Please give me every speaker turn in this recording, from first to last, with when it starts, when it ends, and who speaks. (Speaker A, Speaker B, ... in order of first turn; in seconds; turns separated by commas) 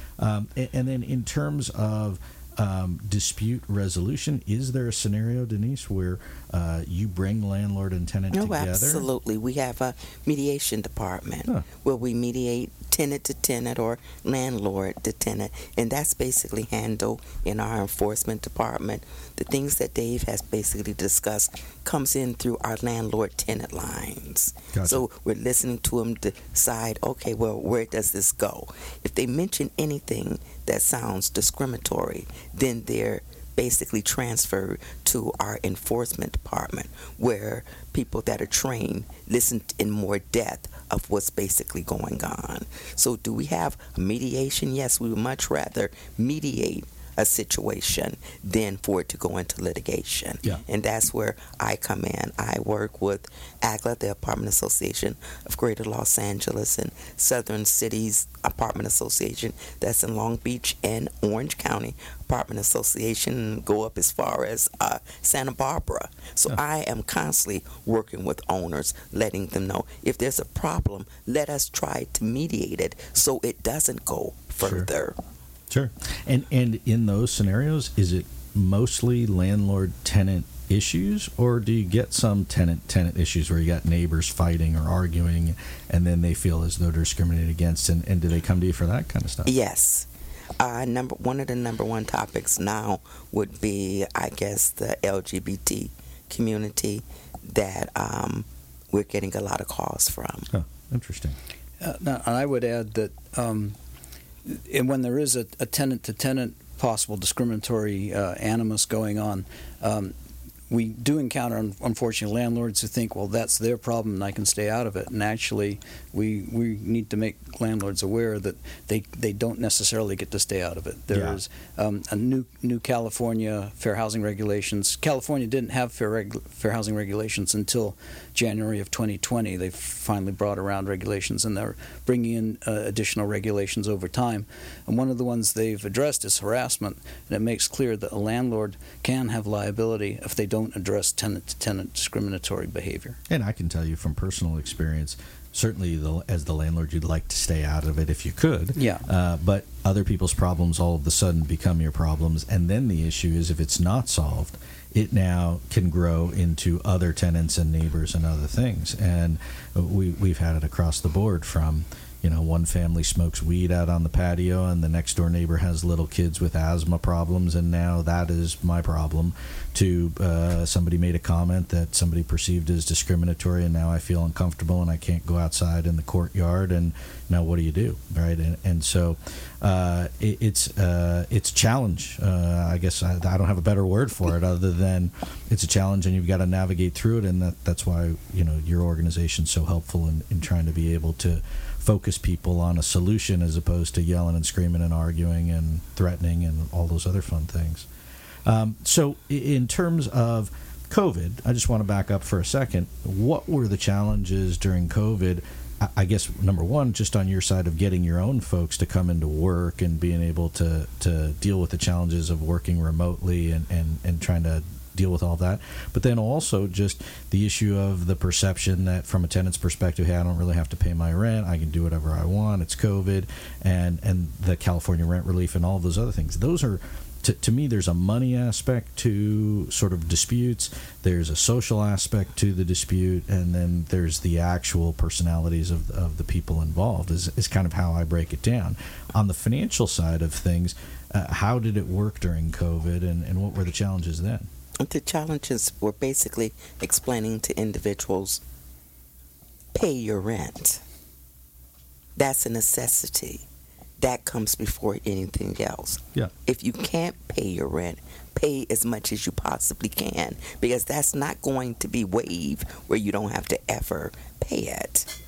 Speaker A: 0.2-9.1, Speaker B: 8.3-75.2, Speaker A: 24.7-25.0, Speaker A: 74.6-74.9, Speaker A: 75.7-89.5, Speaker B: 89.5-100.5, Speaker A: 100.5-101.4, Speaker C: 101.8-103.8, Speaker C: 104.5-110.1, Speaker C: 110.7-143.2, Speaker A: 121.1-121.4, Speaker A: 143.3-197.9, Speaker C: 148.8-149.0, Speaker A: 198.4-244.5, Speaker B: 244.8-248.4, Speaker B: 249.7-250.8, Speaker B: 252.2-253.4, Speaker B: 254.0-265.1